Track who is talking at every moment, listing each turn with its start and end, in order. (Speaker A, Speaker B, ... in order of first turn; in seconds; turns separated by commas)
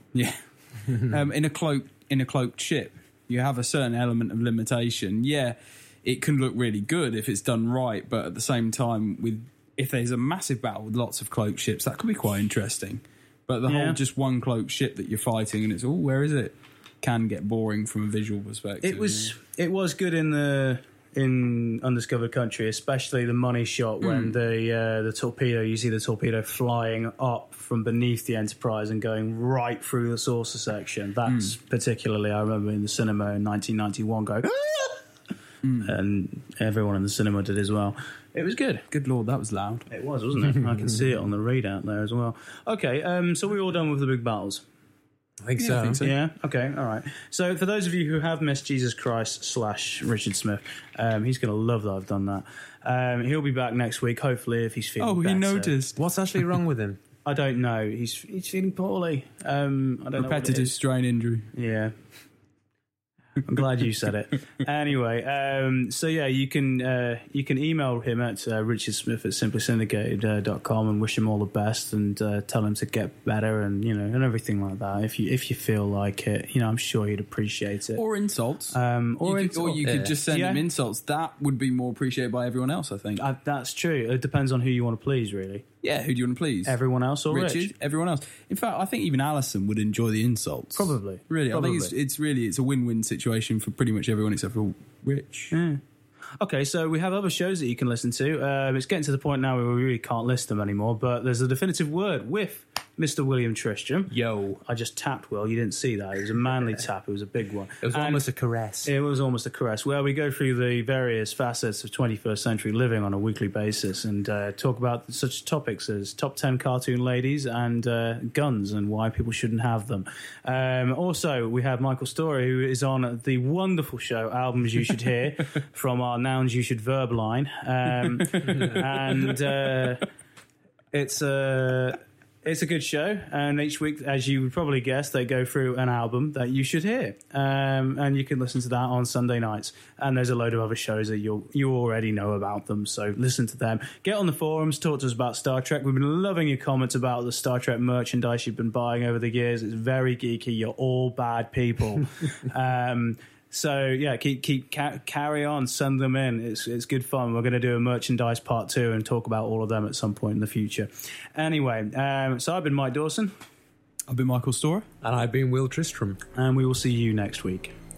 Speaker A: 0.1-19.3, Speaker B: 13.7-14.0, Speaker B: 18.8-35.0, Speaker A: 24.0-24.3, Speaker A: 31.3-31.5, Speaker A: 35.6-35.9, Speaker B: 35.8-38.9, Speaker A: 38.9-39.9, Speaker B: 39.9-44.6, Speaker C: 45.4-46.0, Speaker A: 45.6-46.2, Speaker B: 46.0-55.7, Speaker A: 55.0-56.0, Speaker C: 56.0-57.0, Speaker B: 57.2-60.8, Speaker A: 60.2-61.5, Speaker B: 61.5-61.9, Speaker B: 63.4-78.0, Speaker A: 78.0-83.2, Speaker B: 78.7-80.6, Speaker C: 79.8-80.1, Speaker B: 83.2-85.7, Speaker A: 85.8-86.8, Speaker B: 86.7-87.7, Speaker A: 87.3-95.5, Speaker B: 90.8-91.9, Speaker B: 95.5-95.8, Speaker B: 96.4-108.2, Speaker C: 104.1-104.6, Speaker C: 107.8-108.9, Speaker B: 108.8-130.1, Speaker B: 130.9-163.3, Speaker A: 164.1-164.9, Speaker C: 165.0-166.2, Speaker B: 166.4-167.7